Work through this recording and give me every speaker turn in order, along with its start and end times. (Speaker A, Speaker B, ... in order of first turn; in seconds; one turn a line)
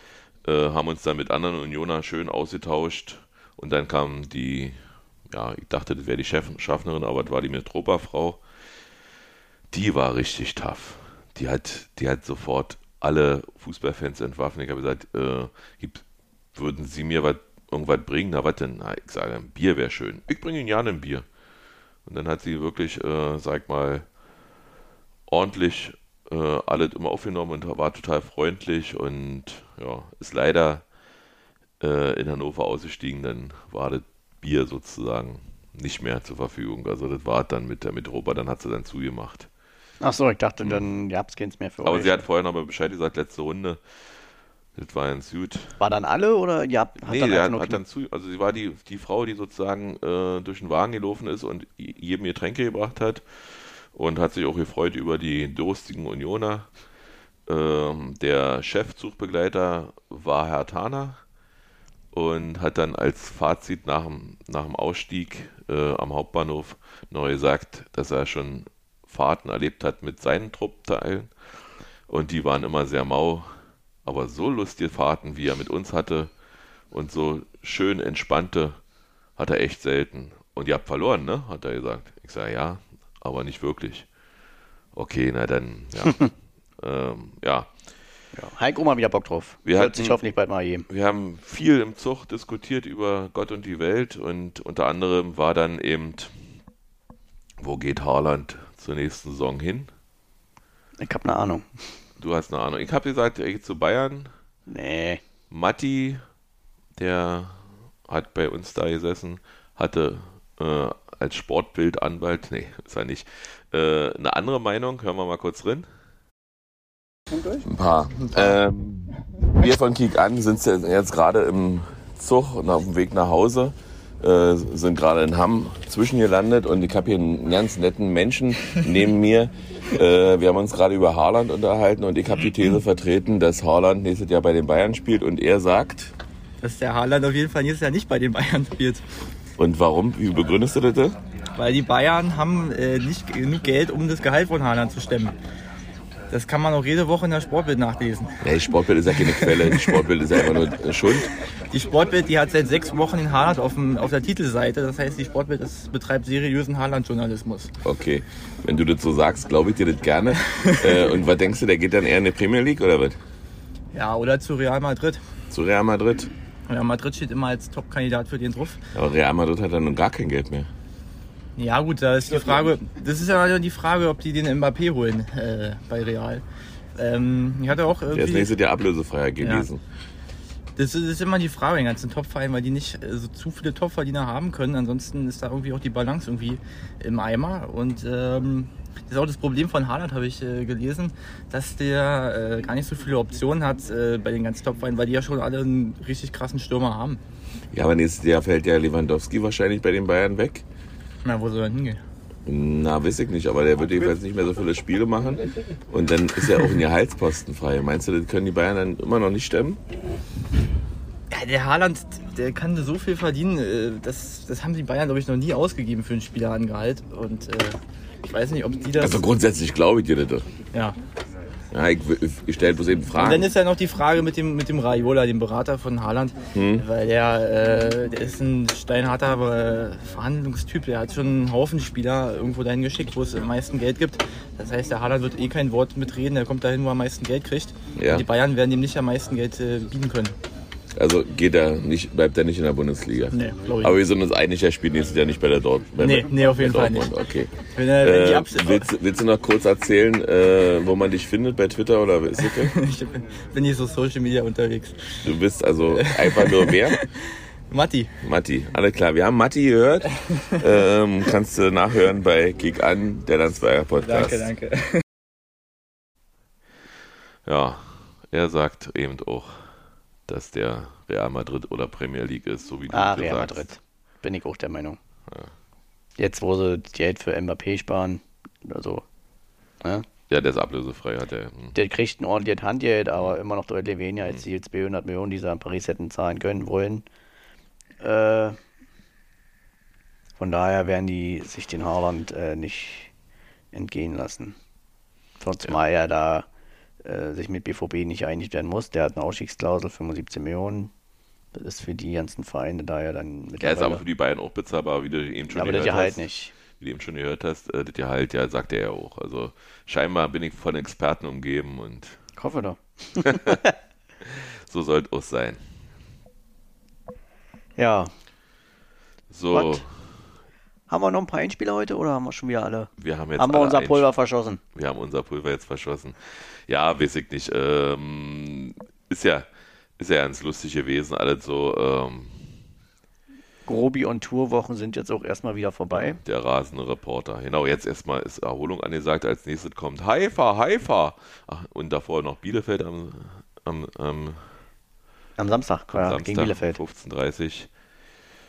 Speaker A: 0.4-8.4
Speaker A: 9.7-16.0
Speaker A: 16.5-21.2
Speaker A: 22.1-24.0
Speaker A: 25.3-30.8
Speaker A: 31.8-39.5
Speaker B: 40.0-42.2
Speaker A: 40.6-40.9
Speaker A: 41.8-43.8
Speaker A: 44.8-45.8
Speaker B: 45.8-47.8
Speaker A: 47.0-56.7
Speaker A: 57.5-61.2
Speaker A: 62.1-76.3
Speaker A: 76.9-78.8
Speaker A: 79.4-84.1
Speaker A: 84.9-87.7
Speaker B: 88.3-90.9
Speaker A: 89.6-90.2
Speaker A: 90.9-96.4
Speaker A: 97.6-99.9
Speaker B: 101.0-101.9
Speaker A: 102.2-104.3
Speaker B: 104.7-105.2
Speaker A: 105.5-106.2
Speaker A: 107.0-115.9
Speaker C: 117.6-136.1
Speaker D: 136.6-139.0
Speaker C: 139.6-141.2
Speaker D: 141.6-145.3
Speaker D: 146.3-148.4
Speaker C: 148.4-151.2
Speaker D: 149.2-150.0
Speaker D: 151.7-157.7
Speaker C: 157.8-163.2
Speaker D: 160.4-161.1
Speaker D: 163.9-165.2
Speaker C: 165.5-166.3
Speaker D: 166.7-168.8
Speaker C: 168.9-170.7
Speaker D: 171.6-176.4
Speaker D: 176.9-178.5
Speaker C: 178.1-179.8
Speaker D: 179.4-179.7
Speaker D: 180.8-197.2
Speaker C: 197.7-200.6
Speaker D: 201.2-202.0
Speaker C: 202.4-209.8
Speaker D: 211.3-219.2
Speaker C: 219.0-220.4
Speaker C: 221.7-223.5
Speaker D: 223.2-240.4
Speaker C: 226.5-226.8
Speaker C: 237.9-238.3
Speaker C: 240.9-252.7
Speaker D: 243.3-243.9
Speaker D: 246.0-247.1
Speaker D: 247.7-248.8
Speaker D: 252.4-255.1
Speaker C: 255.2-257.0
Speaker D: 255.9-257.1
Speaker D: 257.7-258.1
Speaker C: 258.2-264.5
Speaker D: 264.1-265.0
Speaker A: 267.4-269.7
Speaker A: 270.3-273.7
Speaker B: 272.9-275.0
Speaker A: 275.3-275.5
Speaker B: 276.2-279.0
Speaker A: 280.3-281.8
Speaker B: 281.7-287.1
Speaker B: 288.0-288.6
Speaker B: 290.4-293.1
Speaker B: 293.7-294.6
Speaker B: 295.4-296.5
Speaker B: 297.0-300.9
Speaker B: 301.5-304.0
Speaker A: 303.6-312.2
Speaker B: 305.5-306.5
Speaker B: 312.4-313.6
Speaker A: 313.2-313.6
Speaker A: 314.2-315.7
Speaker B: 317.8-318.1
Speaker A: 319.3-319.9
Speaker B: 319.5-319.8
Speaker B: 320.9-324.6
Speaker A: 323.0-324.1
Speaker A: 324.7-332.6
Speaker B: 333.6-336.2
Speaker A: 335.9-344.5
Speaker B: 345.4-346.8
Speaker A: 345.9-347.7